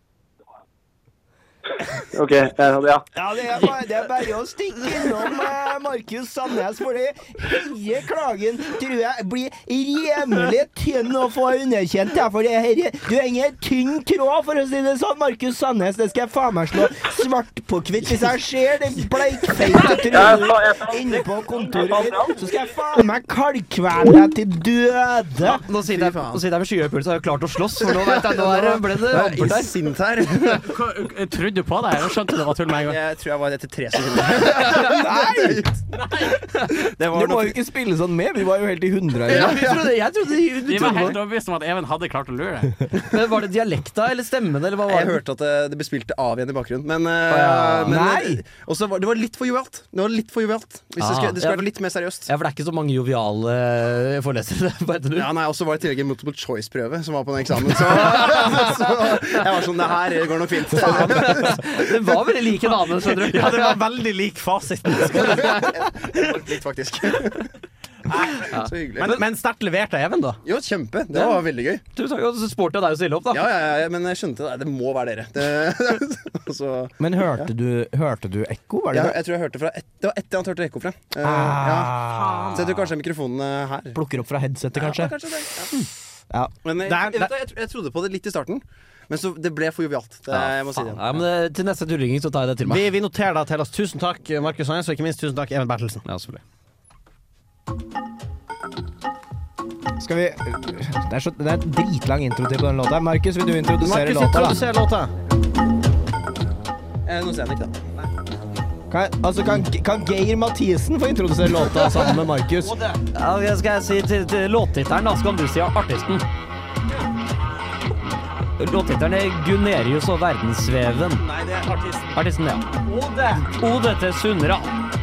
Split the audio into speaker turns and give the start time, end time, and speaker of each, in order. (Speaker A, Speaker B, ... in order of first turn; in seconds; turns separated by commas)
Speaker A: 2.1-3.0, Speaker B: 3.1-25.6, Speaker A: 20.1-21.2, Speaker A: 21.9-22.3, Speaker C: 25.4-29.7, Speaker D: 25.8-26.4, Speaker D: 27.8-30.7, Speaker E: 30.6-33.0, Speaker D: 32.8-35.8, Speaker B: 34.9-35.6, Speaker E: 35.9-36.3, Speaker D: 37.0-37.5, Speaker B: 37.1-39.8, Speaker C: 39.3-41.2, Speaker E: 40.7-42.8, Speaker C: 43.0-45.2, Speaker D: 44.9-52.3, Speaker C: 47.3-48.0, Speaker B: 47.9-48.4, Speaker C: 51.0-51.7, Speaker C: 52.2-55.3, Speaker D: 55.1-61.8, Speaker C: 60.8-63.8, Speaker E: 62.7-65.8, Speaker D: 65.1-67.5, Speaker D: 68.2-69.2, Speaker C: 68.5-69.2, Speaker E: 69.0-70.4, Speaker D: 70.4-71.8, Speaker C: 71.1-71.4, Speaker C: 71.9-73.5, Speaker D: 73.3-77.5, Speaker B: 77.0-79.2, Speaker D: 78.9-81.9, Speaker B: 81.2-82.7, Speaker E: 82.0-82.6, Speaker D: 82.5-84.0, Speaker B: 83.9-85.2, Speaker D: 84.8-85.7, Speaker D: 86.6-91.2, Speaker E: 86.8-87.3, Speaker C: 90.3-92.9, Speaker E: 92.7-96.0, Speaker C: 96.0-96.4, Speaker B: 100.0-104.6, Speaker E: 103.8-105.1, Speaker D: 107.2-107.7, Speaker B: 108.9-112.8, Speaker C: 113.1-116.3, Speaker C: 118.6-121.2, Speaker E: 121.2-122.2, Speaker C: 122.1-122.7, Speaker E: 122.8-123.5, Speaker C: 123.5-124.7